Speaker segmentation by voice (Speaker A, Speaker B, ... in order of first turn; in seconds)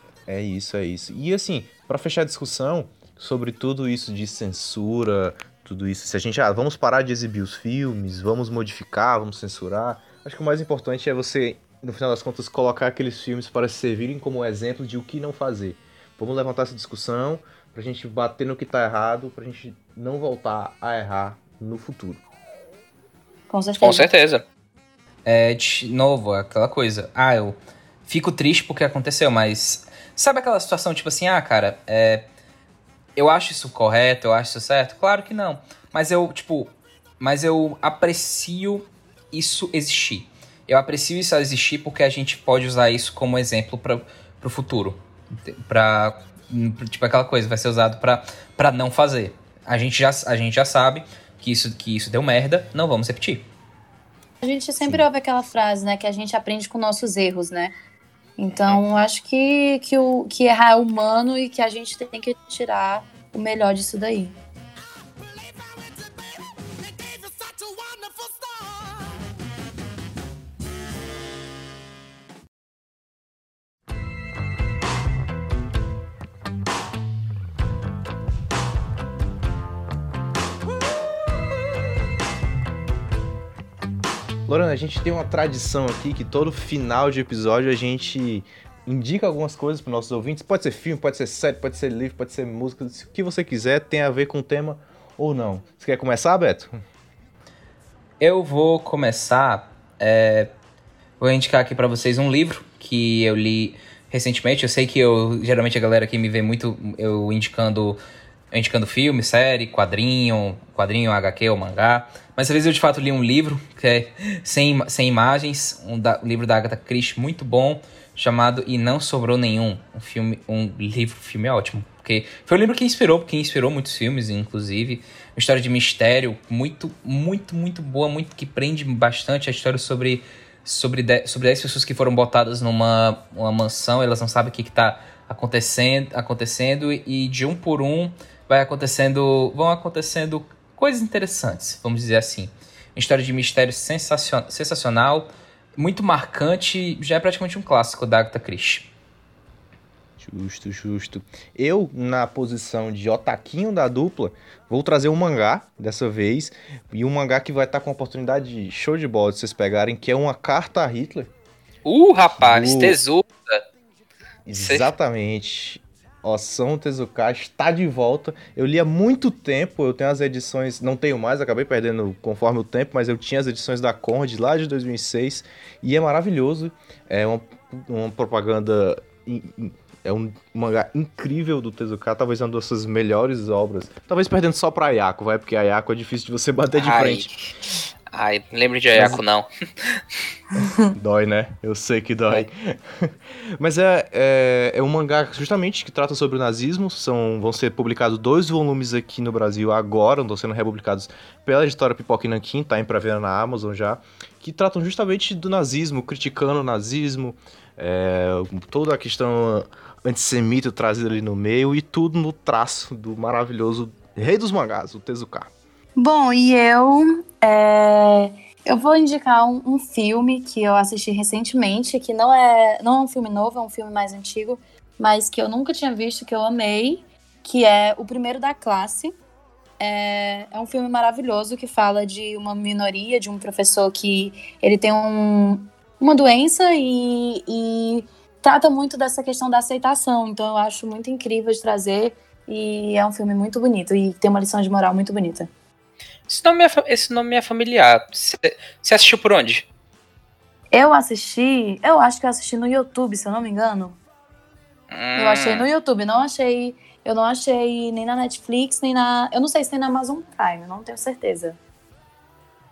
Speaker A: 0.3-22.2, 84.5-96.7, 150.2-161.3, 162.3-163.0, 164.4-187.3, 188.9-189.2, 190.9-215.5
Speaker B: 23.5-24.1, 54.4-57.7, 58.4-64.3, 190.6-190.9, 216.0-229.1, 229.8-245.5, 250.7-254.0, 255.2-261.6
Speaker C: 23.8-24.4, 25.2-32.2, 33.1-53.5, 98.2-100.5, 101.2-108.0, 108.5-148.9, 161.8-163.6, 164.5-164.9, 186.7-187.5, 188.1-190.0, 246.3-249.7, 254.9-255.7